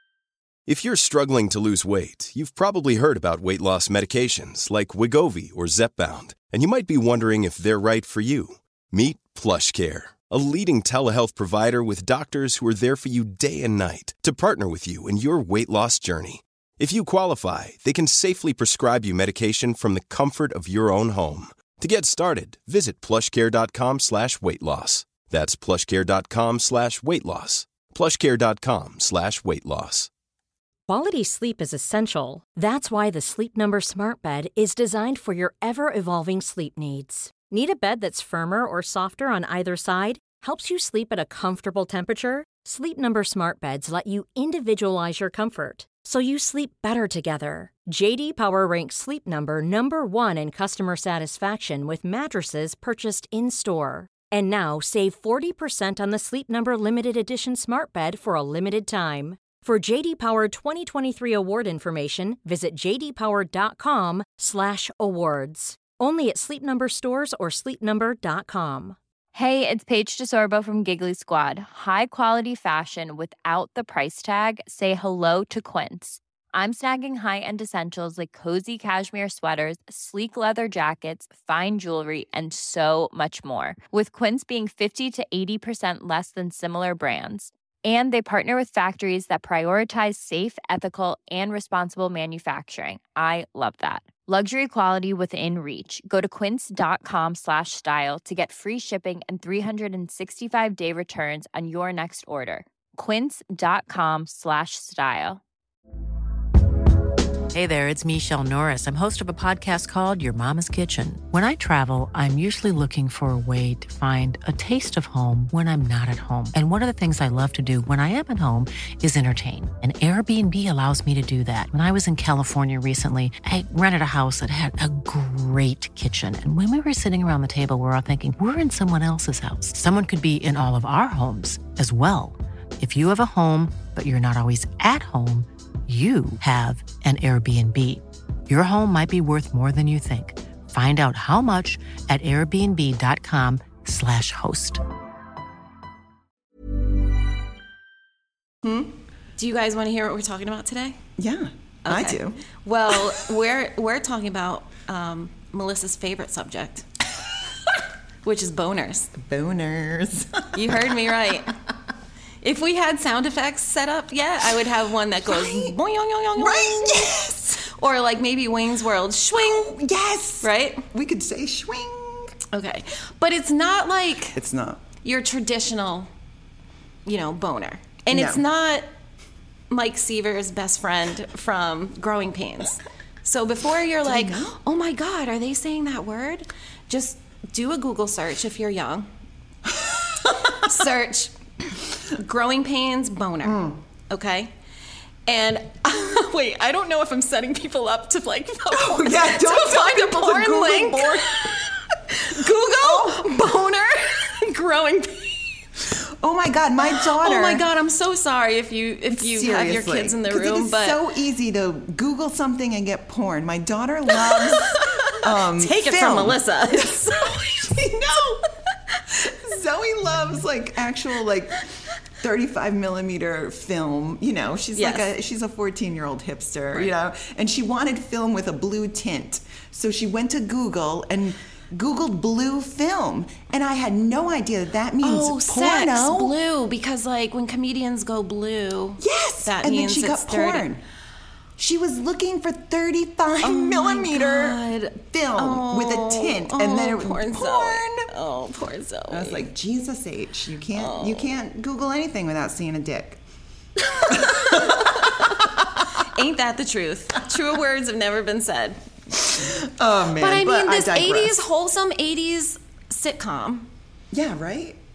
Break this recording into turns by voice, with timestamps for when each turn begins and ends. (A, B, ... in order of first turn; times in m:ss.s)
0:00.7-0:30.1 A
0:30.9-1:09.0 B
1:09.3-1:45.4 C
1:47.5-2:24.8 D
2:28.6-2:28.9 E
2:29.4-2:31.0 F
2:31.2-2:32.4 E
2:31.8-2:36.9 F
2:38.2-2:39.1 F
2:39.1-2:41.0 E
2:40.5-2:41.5 F
2:42.4-2:49.7 F
2:45.3-2:45.8 E
2:46.4-2:47.6 E
2:49.3-2:52.3 E
2:50.4-2:50.8 F
2:52.5-2:54.4 F
2:54.4-2:54.8 E
2:55.0-2:56.1 F
2:57.0-2:58.9 F
2:58.1-2:58.4 E
2:59.7-3:09.1 F
3:04.0-3:04.6 E
3:09.7-3:10.6 E
3:10.5-3:11.3 F
3:12.1-3:14.5 F
3:13.4-3:13.8 E
3:15.3-3:25.6 F
3:18.7-3:21.6 E
3:22.7-3:23.4 E
3:26.2-3:27.6 E
3:26.9-3:31.0 F
3:29.1-3:38.5 E
3:34.3-3:37.5 F
3:39.1-3:41.6 E
3:42.2-3:56.4 E
3:44.8-3:45.1 F
3:55.0-4:00.7 F
3:59.0-4:00.8 E
4:01.6-4:08.1 E
4:03.4-4:09.5 F
4:09.1-4:13.2 E
4:10.8-4:11.3 F
4:13.8-4:15.4 F
4:14.1-4:15.8 E
4:16.0-4:19.5 F
4:19.3-4:21.4 E
4:20.2-4:23.7 F
4:24.1-4:24.8 E